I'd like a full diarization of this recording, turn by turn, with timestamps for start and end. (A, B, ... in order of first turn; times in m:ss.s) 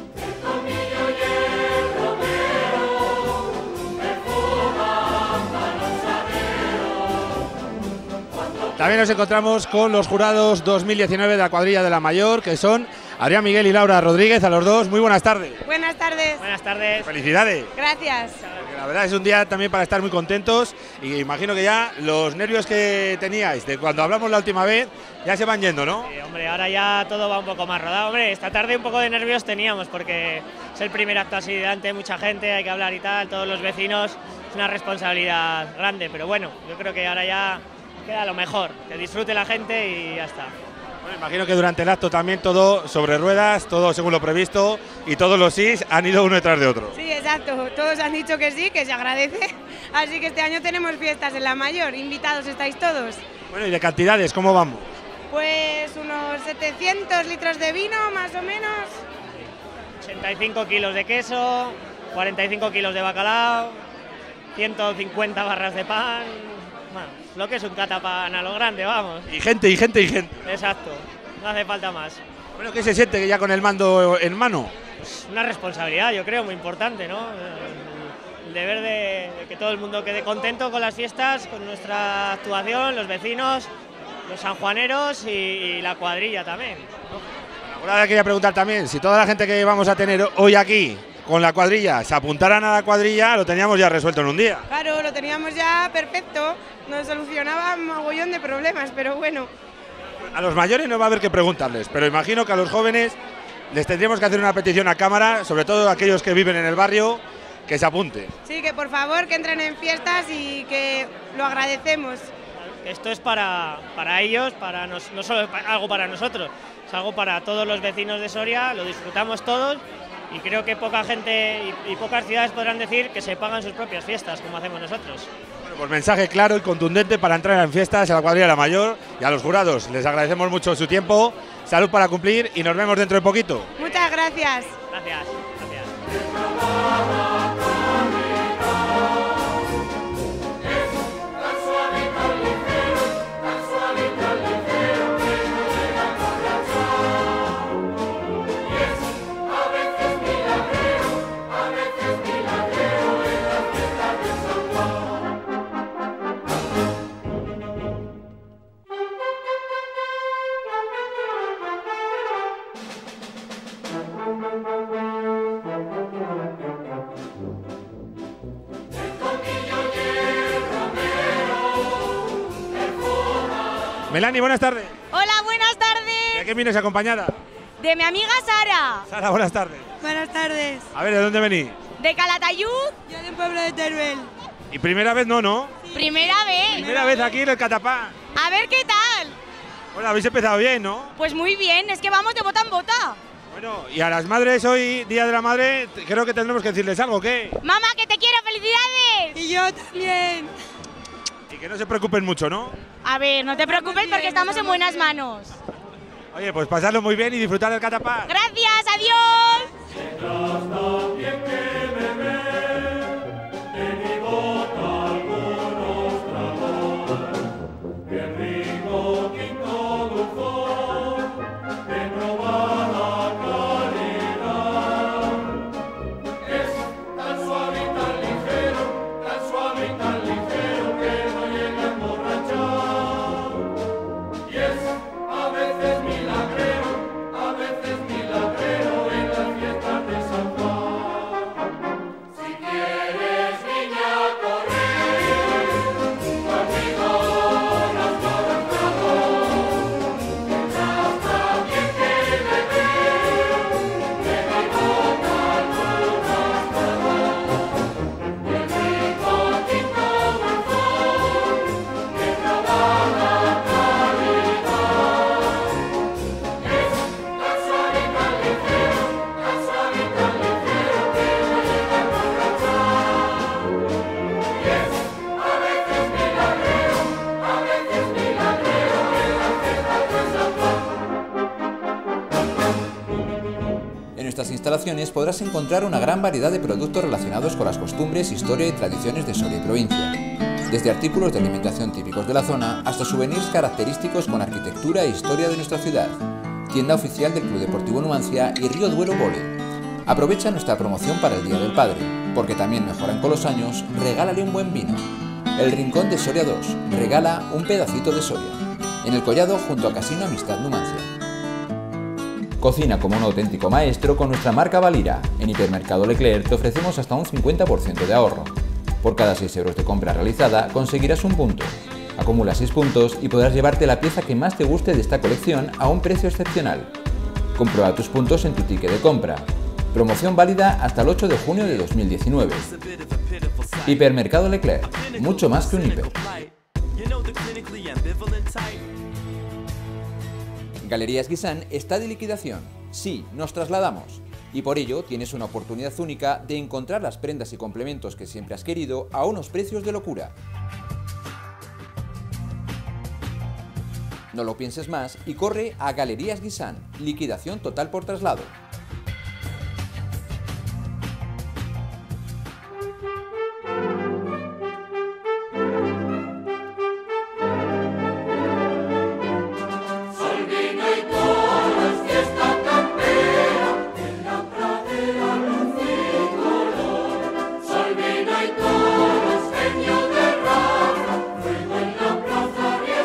0:08.8-0:15.6 A
0:15.6-0:16.4 B
0:16.4-0:17.1 C
0:17.0-0:17.7 A
0:17.7-0:18.4 B
0:18.6-0:26.1 A
0:26.0-0:40.5 C
0:41.0-0:47.0 A
0:46.9-0:53.2 B
0:53.5-0:54.9 A
0:55.3-0:59.0 B
1:00.0-1:03.8 C
1:04.5-1:09.3 C
1:09.3-1:10.6 A
1:10.4-1:12.2 C
1:12.6-1:14.7 A
1:15.0-1:23.7 C
1:24.3-1:26.9 C
1:27.6-1:34.7 A
1:34.7-1:39.5 B
1:40.3-1:43.2 A
1:43.7-1:48.3 A
1:48.4-1:52.3 B
1:52.8-2:05.3 C
2:05.6-2:13.7 A
2:13.8-2:14.8 B
2:14.8-2:15.9 C
2:54.1-2:55.0 A
2:55.1-2:56.4 D
2:56.3-2:57.4 A
2:57.8-2:59.1 D
2:59.1-2:59.9 A
3:00.0-3:00.9 B
3:00.9-3:01.8 A
3:02.0-3:03.0 D
3:03.1-3:04.3 B
3:04.7-3:05.8 A
3:05.9-3:07.0 B
3:05.9-3:06.8 D
3:06.7-3:08.1 A
3:08.3-3:09.4 D
3:09.9-3:11.1 A
3:11.2-3:13.2 D
3:13.5-3:17.6 A
3:17.6-3:19.4 D
3:19.4-3:20.5 B
3:21.5-3:22.8 A
3:23.0-3:25.6 D
3:26.3-3:28.3 A
3:28.3-3:29.7 D
4:44.1-5:05.0 E
5:05.6-5:11.1 E
5:12.6-5:26.9 E
5:27.6-5:32.7 E
5:33.8-5:36.2 E
5:40.8-5:50.3 E
5:54.3-5:58.5 E